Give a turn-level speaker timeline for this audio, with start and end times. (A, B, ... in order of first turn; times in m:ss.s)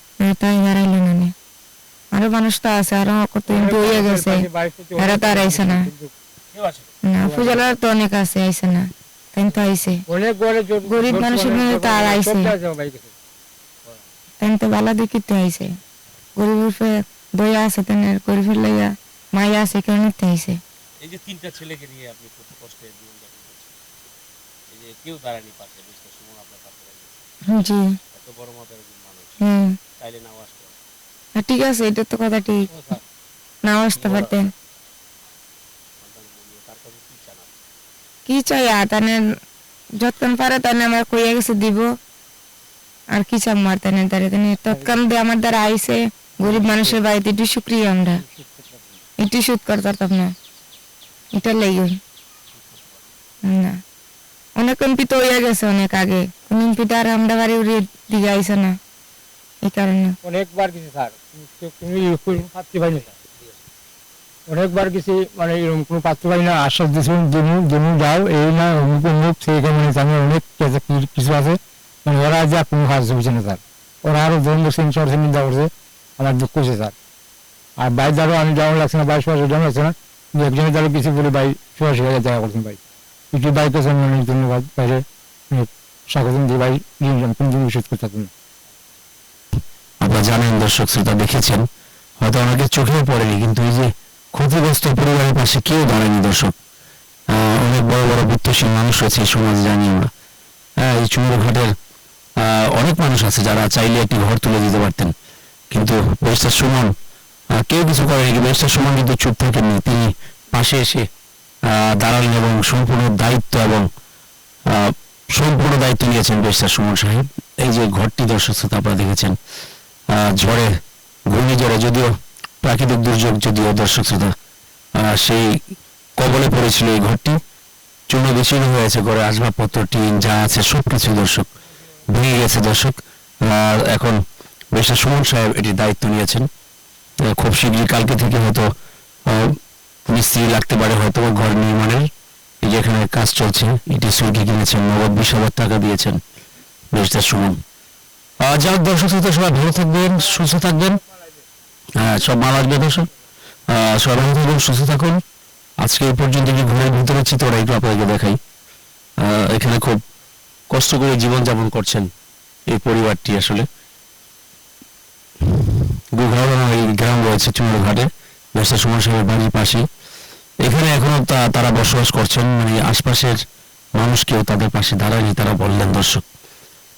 0:00.2-0:01.3 A
0:02.1-0:05.9 A
0:03.5-0:06.1 B
0:06.5-0:07.0 C
0:07.1-0:10.0 A
0:07.2-0:07.8 B
0:10.1-0:13.1 B
0:10.8-0:12.6 A
0:13.8-0:14.1 C
0:14.4-0:15.8 A
0:16.4-0:20.6 A
0:21.0-0:23.7 C
0:24.7-0:27.2 C
0:27.5-0:28.0 A
0:28.1-0:29.4 C
0:29.4-0:29.8 A
0:30.0-0:30.8 C
0:31.4-0:32.7 A
0:32.7-0:33.0 C
0:33.6-0:34.5 A
0:34.0-0:34.4 C
0:36.0-0:37.6 C
0:38.3-0:39.2 A
0:40.0-0:42.0 A
0:43.1-0:48.2 A
0:44.7-0:45.0 B
0:49.2-0:50.3 A
0:51.3-0:52.0 A
0:52.5-0:53.2 C
0:53.5-0:53.8 A
0:54.6-0:58.8 A
0:59.6-1:00.2 A
1:00.2-1:03.1 B
1:02.6-1:03.6 C
1:04.5-1:16.9 B
1:17.8-1:22.8 B
1:23.3-1:28.3 B
1:30.0-1:31.7 D
1:32.2-1:36.5 D
1:37.3-1:40.1 D
1:40.8-1:41.7 D
1:42.4-1:45.1 D
1:45.7-1:46.9 D
1:47.5-1:51.0 D
1:51.7-1:53.8 D
1:54.7-1:59.4 D
2:00.1-2:00.7 D
2:01.3-2:02.1 D
2:02.6-2:04.3 D
2:05.0-2:05.6 D
2:06.2-2:07.4 D
2:08.1-2:11.5 D
2:12.1-2:14.2 D
2:14.7-2:16.5 D
2:17.2-2:18.7 D
2:19.3-2:22.1 D
2:22.6-2:26.2 D
2:26.9-2:27.6 D
2:28.4-2:31.0 D
2:32.0-2:33.1 D
2:33.7-2:35.2 D
2:35.8-2:38.4 D
2:39.2-2:40.0 D
2:40.7-2:42.1 D
2:42.7-2:43.7 D
2:45.5-2:49.8 D
2:50.6-2:53.4 D
2:53.9-2:56.2 D